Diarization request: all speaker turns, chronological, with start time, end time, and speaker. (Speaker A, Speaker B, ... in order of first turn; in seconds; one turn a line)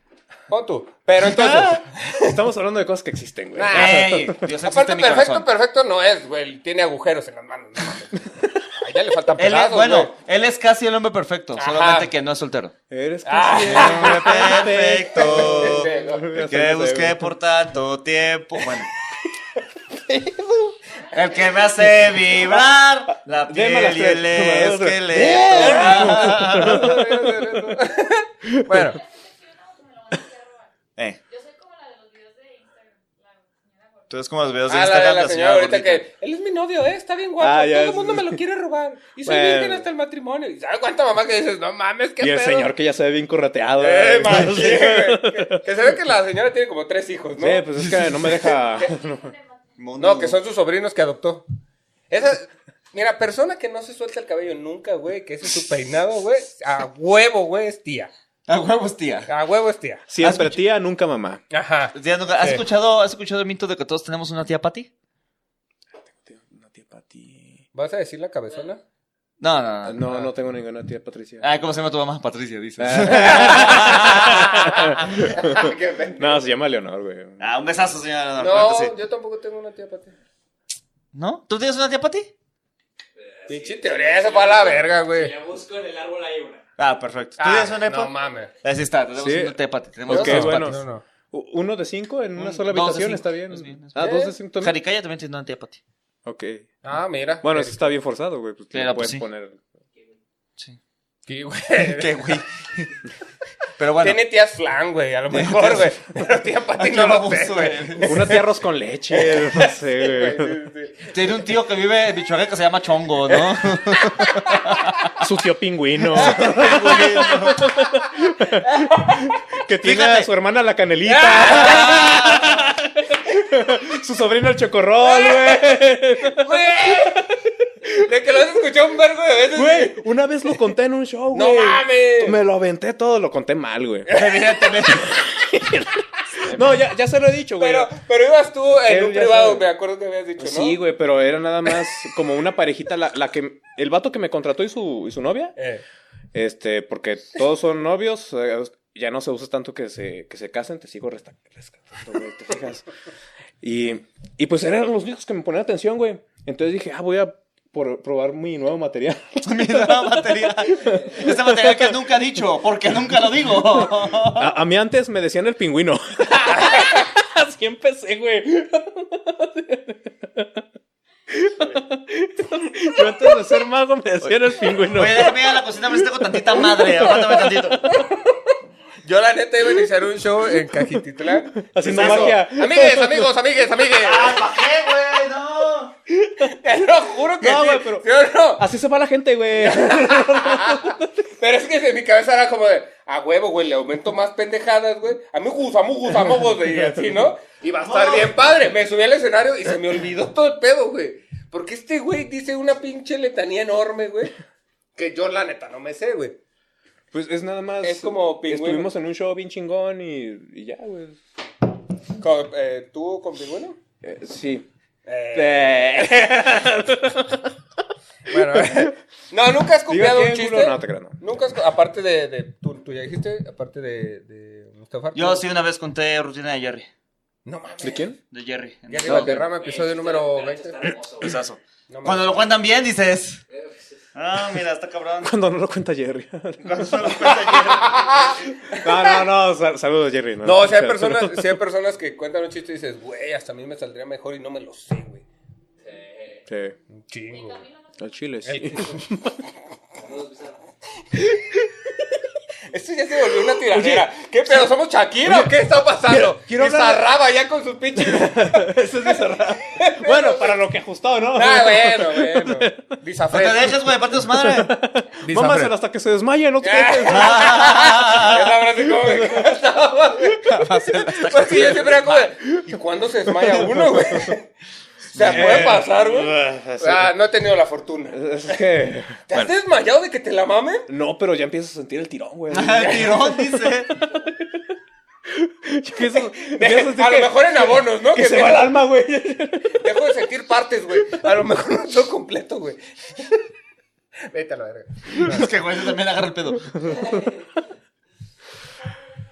Speaker A: 0.5-2.4
Speaker B: 1.2-4.4
Speaker C: 1.2-1.8
Speaker A: 3.5-10.1
Speaker C: 3.7-5.5
Speaker C: 9.4-12.7
Speaker A: 11.6-12.1
Speaker B: 12.9-17.2
Speaker A: 13.2-14.6
Speaker C: 13.6-18.9
Speaker A: 15.2-16.3
Speaker B: 20.0-20.7
Speaker D: 20.9-21.8
Speaker C: 21.1-26.9
Speaker B: 22.3-22.6
Speaker B: 23.1-27.8
Speaker A: 25.4-29.0
Speaker B: 28.5-28.9
Speaker D: 28.9-30.7
Speaker D: 31.3-34.1
Speaker C: 34.1-36.0
Speaker A: 34.7-42.7
Speaker B: 37.4-38.4
Speaker B: 39.2-39.9
Speaker B: 42.2-45.6
Speaker A: 43.8-48.5
Speaker B: 47.4-49.3
Speaker D: 48.5-49.6
Speaker C: 49.8-50.4
Speaker A: 50.0-51.5
Speaker A: 52.1-58.1
Speaker C: 58.5-59.3
Speaker A: 59.3-60.0
Speaker B: 60.1-61.4
Speaker C: 60.2-60.6
Speaker A: 61.5-62.6
Speaker C: 61.9-64.9
Speaker B: 66.0-67.6
Speaker A: 67.7-68.8
Speaker C: 69.4-70.0
Speaker B: 69.8-71.5
Speaker C: 71.4-74.9
Speaker B: 72.8-77.4
Speaker A: 75.1-76.4
Speaker C: 77.4-78.9
Speaker A: 78.4-80.1
Speaker C: 81.1-82.3
Speaker E: 83.2-86.6
Speaker A: 83.5-85.3
Speaker C: 86.8-90.8
Speaker A: 87.4-88.5
Speaker B: 89.2-94.8
Speaker A: 90.1-91.0
Speaker C: 92.4-95.8
Speaker A: 94.0-94.3
Speaker B: 96.2-96.7
Speaker A: 96.8-97.9
Speaker B: 97.4-99.6
Speaker C: 98.7-99.2
Speaker A: 101.3-102.4
Speaker C: 101.8-102.9
Speaker C: 103.8-104.2
Speaker A: 104.0-108.4
Speaker C: 105.3-105.9
Speaker C: 106.8-108.3
Speaker B: 108.0-110.6
Speaker A: 109.1-111.5
Speaker C: 111.1-115.1
Speaker B: 115.2-127.1
Speaker C: 116.1-117.7
Speaker A: 116.2-117.3
Speaker C: 119.8-120.3
Speaker A: 121.0-122.6
Speaker C: 121.5-122.4
Speaker A: 125.1-127.3
Speaker A: 127.8-130.0
Speaker B: 129.5-134.1
Speaker A: 131.3-132.4
Speaker A: 134.1-135.1
Speaker C: 134.1-135.1
Speaker B: 135.0-137.9
Speaker A: 136.3-136.6
Speaker A: 137.6-140.8
Speaker B: 138.8-139.7
Speaker B: 140.4-145.6
Speaker A: 145.6-145.8
Speaker B: 146.3-152.8
Speaker B: 153.6-162.0
Speaker C: 159.4-164.5
Speaker B: 163.7-170.6
Speaker A: 166.5-167.0
Speaker B: 171.3-178.0
Speaker C: 174.9-177.9
Speaker A: 177.9-178.3
Speaker A: 179.0-184.4
Speaker B: 180.7-181.0
Speaker B: 181.5-183.3
Speaker C: 181.8-182.4
Speaker C: 183.9-185.9
Speaker A: 186.4-188.6
Speaker B: 187.4-188.1
Speaker B: 188.6-191.1
Speaker A: 189.6-204.3
Speaker B: 196.7-197.3
Speaker C: 197.8-198.3
Speaker A: 204.9-206.4
Speaker B: 207.1-211.2
Speaker A: 207.8-208.9
Speaker A: 212.2-213.8
Speaker B: 214.0-214.7
Speaker A: 215.1-216.5
Speaker B: 215.3-217.5
Speaker A: 218.3-225.4
Speaker B: 218.3-218.9
Speaker B: 219.9-221.2
Speaker C: 225.1-226.9
Speaker A: 227.4-228.1
Speaker B: 227.8-228.2
Speaker C: 228.3-229.4
Speaker A: 228.9-230.9
Speaker B: 229.0-229.5
Speaker E: 229.5-231.4
Speaker C: 231.2-233.4
Speaker A: 231.9-232.4
Speaker E: 233.5-234.0
Speaker C: 234.1-235.3
Speaker B: 235.2-237.9
Speaker C: 236.6-238.4
Speaker A: 237.6-239.2
Speaker B: 238.7-241.6
Speaker A: 240.4-245.2
Speaker E: 245.8-246.4
Speaker B: 246.5-246.7
Speaker A: 247.1-247.6
Speaker D: 247.3-248.2
Speaker B: 248.0-249.3
Speaker A: 248.4-249.1
Speaker E: 250.0-250.6
Speaker A: 252.7-260.6
Speaker B: 253.6-254.7
Speaker B: 255.2-257.0
Speaker B: 257.9-262.9
Speaker A: 261.3-263.8
Speaker C: 263.3-264.8
Speaker B: 264.1-267.8
Speaker A: 265.2-265.7
Speaker A: 266.6-274.5
Speaker C: 267.1-268.5
Speaker B: 268.9-269.6
Speaker C: 270.4-272.3
Speaker B: 273.3-274.3
Speaker A: 275.1-278.6
Speaker C: 275.1-275.8
Speaker B: 275.2-277.1
Speaker B: 278.1-279.2
Speaker A: 279.3-280.9
Speaker B: 280.9-284.3
Speaker C: 282.5-283.9
Speaker B: 285.3-289.9
Speaker A: 286.4-288.8
Speaker A: 289.8-293.4
Speaker A: 294.3-295.5
Speaker C: 295.1-296.7
Speaker B: 296.7-297.2
Speaker D: 298.8-299.2